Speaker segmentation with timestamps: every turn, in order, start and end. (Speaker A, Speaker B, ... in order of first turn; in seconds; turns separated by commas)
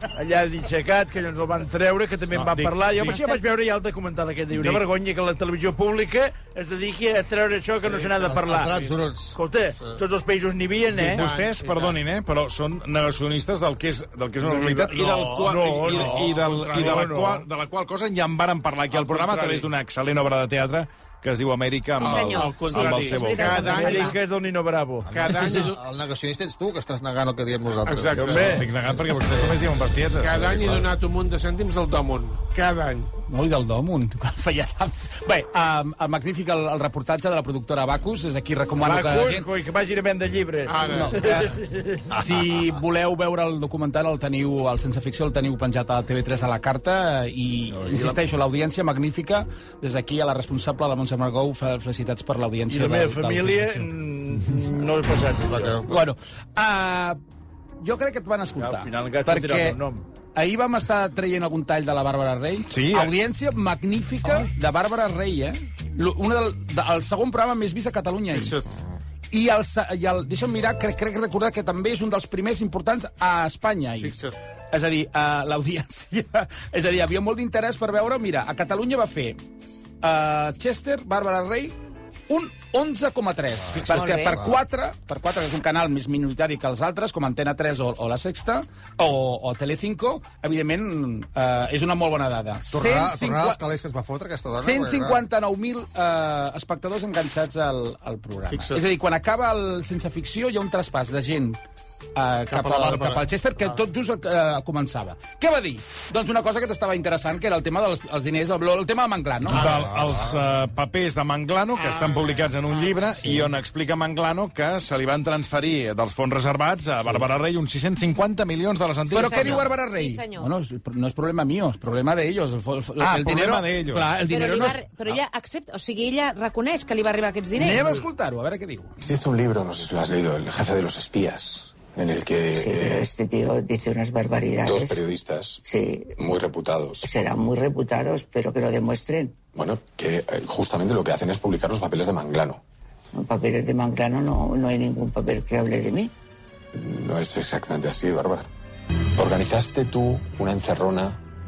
Speaker A: 0.1-11.2, Speaker B: 2.3-3.2, Speaker B: 4.5-4.8, Speaker C: 7.8-10.0, Speaker D: 11.0-12.0, Speaker B: 11.1-23.8, Speaker D: 14.6-17.0, Speaker A: 15.2-17.4, Speaker E: 21.9-24.2, Speaker D: 22.4-24.1, Speaker A: 23.7-25.1, Speaker C: 25.1-29.6, Speaker D: 25.1-25.8, Speaker D: 27.9-28.6, Speaker B: 28.1-30.9, Speaker A: 28.3-28.6, Speaker D: 30.1-33.1, Speaker F: 33.2-39.5, Speaker A: 38.8-42.2, Speaker D: 40.7-41.2, Speaker F: 40.9-41.5, Speaker F: 42.1-53.9, Speaker A: 52.7-55.8, Speaker C: 55.5-56.0, Speaker F: 55.9-57.2, Speaker F: 57.8-59.8, Speaker A: 58.6-60.0, Speaker F: 60.3-68.6, Speaker B: 62.7-63.1, Speaker D: 68.3-68.6, Speaker F: 69.3-74.2, Speaker D: 74.0-74.3, Speaker F: 74.7-79.4, Speaker F: 80.0-81.8, Speaker F: 82.3-93.6, Speaker E: 83.9-84.3, Speaker C: 84.3-84.6, Speaker C: 92.7-95.3, Speaker F: 94.5-101.6, Speaker D: 98.5-98.8, Speaker F: 102.2-109.8, Speaker D: 102.5-103.3, Speaker B: 109.5-119.7, Speaker D: 109.5-110.3, Speaker D: 111.8-112.5, Speaker F: 113.2-113.5, Speaker F: 117.0-117.3, Speaker F: 119.1-125.2, Speaker E: 119.1-120.5, Speaker B: 123.0-124.1, Speaker E: 124.2-128.0, Speaker F: 127.5-128.9, Speaker G: 129.0-133.1, Speaker H: 132.5-135.1, Speaker G: 134.6-135.6, Speaker H: 135.6-136.2, Speaker G: 136.2-137.1, Speaker H: 137.0-139.4, Speaker G: 139.6-142.6, Speaker H: 143.1-146.1, Speaker G: 146.8-148.5, Speaker G: 149.2-151.2